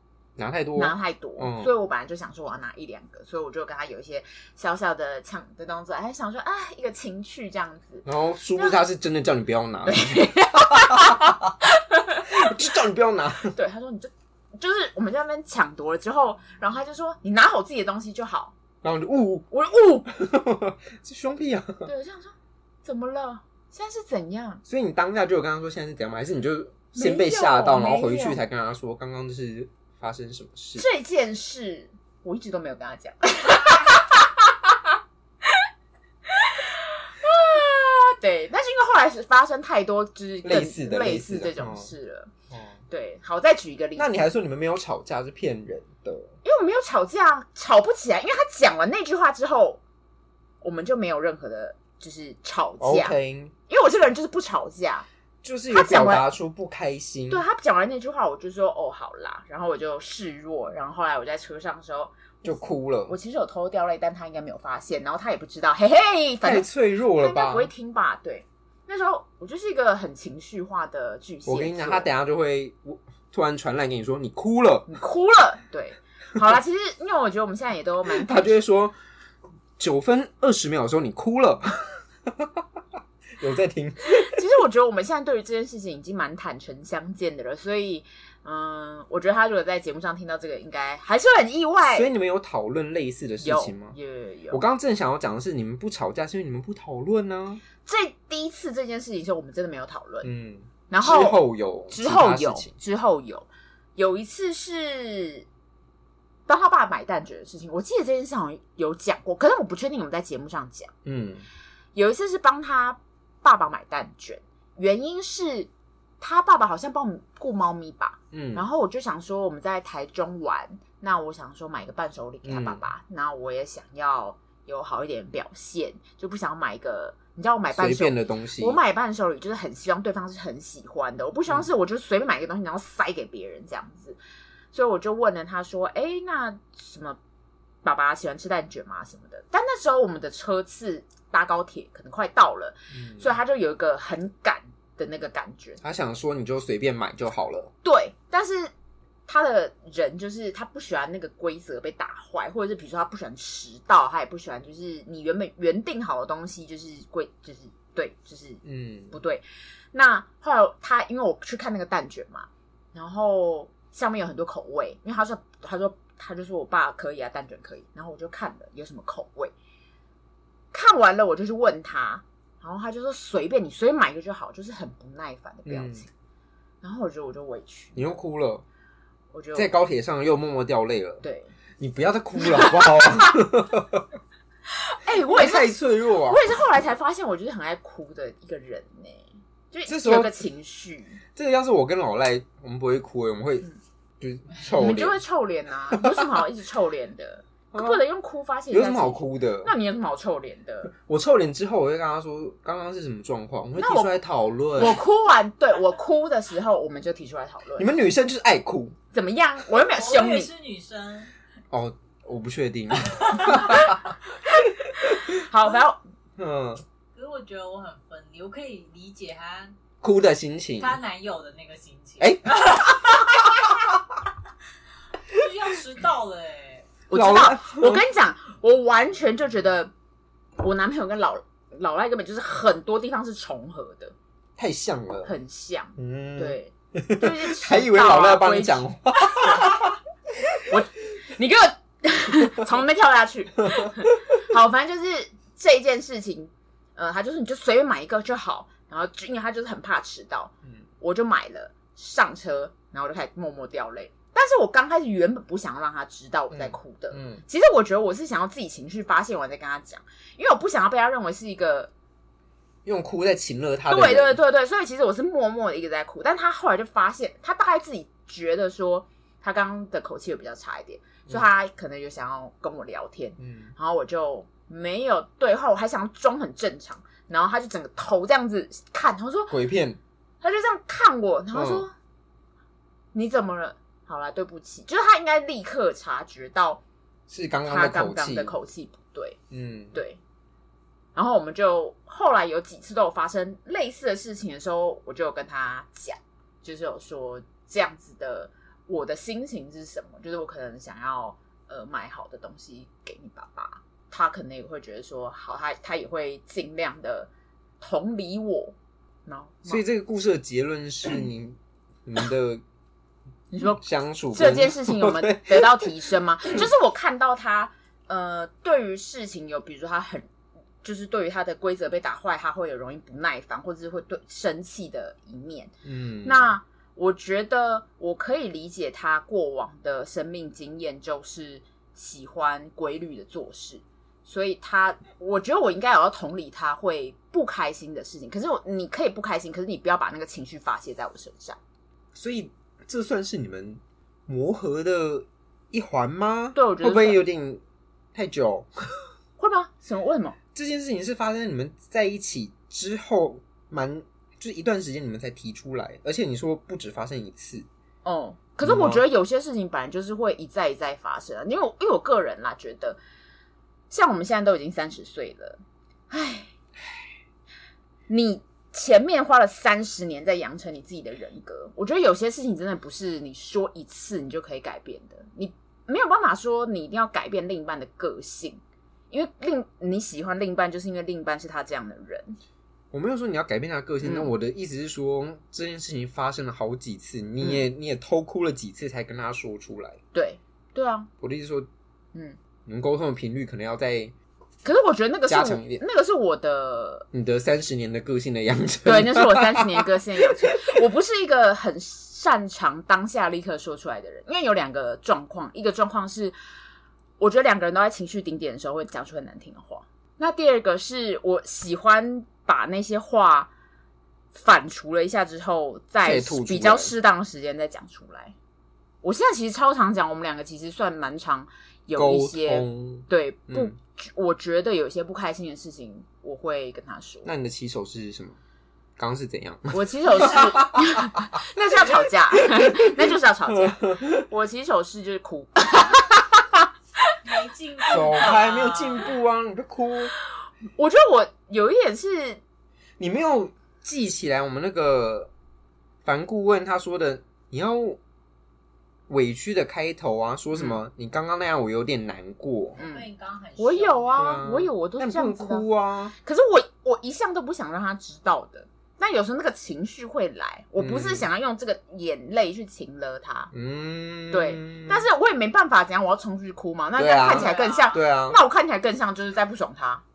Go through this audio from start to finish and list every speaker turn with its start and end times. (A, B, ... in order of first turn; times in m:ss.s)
0:00.4-0:01.7 A
0:00.8-0:08.0 B
0:08.0-0:11.2 A
0:09.8-0:12.6 B
0:12.3-0:13.6 A
0:13.5-0:18.5 B
0:18.8-0:19.5 A
0:19.5-0:20.1 B
0:20.1-0:21.9 A
0:21.8-0:24.6 B
0:24.7-0:30.8 A
0:26.9-0:28.4 B
0:30.8-0:34.9 B
0:36.3-0:42.3 B
0:40.4-0:41.9 A
0:42.5-0:42.8 A
0:42.9-0:44.1 B
0:44.0-0:46.3 A
0:46.4-0:49.8 B
0:50.6-0:53.1 B
0:52.8-0:53.5 A
0:53.7-0:55.0 B
0:55.4-0:57.4 A
0:55.7-0:56.2 B
0:57.3-1:12.1 B
1:02.4-1:03.2 A
1:06.4-1:07.7 A
1:11.4-1:14.9 A
1:14.9-1:18.5 B
1:18.1-1:18.9 A
1:19.8-1:22.6 A
1:23.4-1:24.4 A
1:24.1-1:32.1 B
1:31.8-1:34.0 A
1:33.4-1:34.6 B
1:34.5-1:37.6 A
1:37.8-1:40.3 B
1:40.2-1:42.7 A
1:40.9-1:45.4 B
1:46.5-1:50.9 B
1:51.0-1:51.4 A
1:51.9-1:55.7 B
1:56.2-2:14.2 B
1:58.3-1:58.6 A
2:02.4-2:02.8 A
2:07.7-2:08.8 A
2:14.7-2:17.2 B
2:17.8-2:25.8 B
2:22.9-2:23.4 A
2:25.8-2:27.7 A
2:27.8-2:28.7 B
2:29.3-2:49.5 B
2:38.6-2:39.2 A
2:50.7-2:56.1 B
2:55.6-2:56.0 A
2:56.8-2:58.1 B
2:58.0-2:58.6 A
2:59.3-2:59.7 B
2:59.5-3:01.2 A
3:01.2-3:01.5 B
3:01.8-3:04.0 A
3:02.4-3:03.4 B
3:04.7-3:05.7 B
3:05.2-3:06.4 A
3:06.3-3:11.2 B
3:09.9-3:10.4 A
3:11.3-3:13.7 A
3:14.2-3:15.2 A
3:14.7-3:20.9 B
3:15.9-3:16.2 A
3:17.7-3:18.0 A
3:18.7-3:19.7 A
3:20.9-3:25.0 A
3:23.8-3:24.1 B
3:24.8-3:27.9 B
3:27.8-3:29.0 A
3:29.1-3:30.5 B
3:29.9-3:31.3 C
3:31.7-3:34.1 A
3:33.3-3:33.6 C
3:33.6-3:33.9 B
3:34.6-3:36.0 B
3:35.0-3:35.3 A
3:36.4-3:36.8 A
3:37.1-3:39.8 C
3:40.0-3:41.0 A
3:40.8-3:43.8 C
3:42.2-3:43.1 A
3:45.3-3:46.9 C
3:47.1-3:49.9 B
3:47.1-3:48.0 A
3:50.6-3:54.1 B
3:54.6-3:55.3 A
3:55.2-3:59.9 B
3:56.0-4:00.0 A
4:00.7-4:21.9 B
4:03.7-4:04.0 A
4:16.5-4:17.4 A
4:22.8-4:24.4 A
4:23.9-4:39.6 B
4:33.4-4:33.7 A
4:39.5-4:40.0 A
4:40.4-4:41.9 B
4:41.5-4:41.8 A
4:43.1-4:46.8 B
4:47.3-4:48.6 A
4:47.6-4:49.4 B
4:49.5-4:50.0 A
4:49.9-4:50.2 B
4:51.1-5:08.7 B
5:09.2-5:09.8 B
5:09.6-5:12.6 A
5:13.5-5:13.8 B
5:13.8-5:15.9 A
5:14.3-5:20.3 B
5:20.8-5:41.6 B
5:25.8-5:26.5 A
5:42.1-5:47.6 A
5:46.5-5:47.2 B
5:48.1-5:48.7 A
5:49.4-5:50.4 B
5:50.5-5:57.7 A
5:58.0-6:03.0 B
5:58.6-5:59.0 A
6:03.9-6:06.5 B
6:08.1-6:18.6 B
6:19.1-6:22.4 B
6:22.9-6:30.0 A
6:24.0-6:24.3 B
6:30.1-6:31.1 B
6:31.2-6:31.7 A
6:32.6-6:34.1 A
6:34.6-6:37.1 B
6:35.3-6:35.8 A
6:37.1-6:40.3 A
6:38.8-6:46.3 B
6:47.2-6:53.5 B
6:54.3-6:58.3 B
6:56.0-6:56.9 A
6:59.0-7:07.3 B
7:01.9-7:03.7 A
7:07.2-7:08.4 A
7:09.0-7:14.2 A
7:09.7-7:16.2 B
7:17.2-7:19.1 C
7:17.9-7:20.1 A
7:20.8-7:22.4 B
7:23.0-7:25.3 A
7:26.0-7:28.0 A
7:29.1-7:32.8 A
7:30.5-7:30.8 B
7:32.8-7:34.3 C
7:32.8-7:35.6 B
7:34.1-7:36.1 A
7:36.2-7:43.5 B
7:40.8-7:41.2 A
7:43.5-7:45.0 A
7:44.3-7:50.0 B
7:47.0-7:48.4 A
7:47.2-7:48.0 C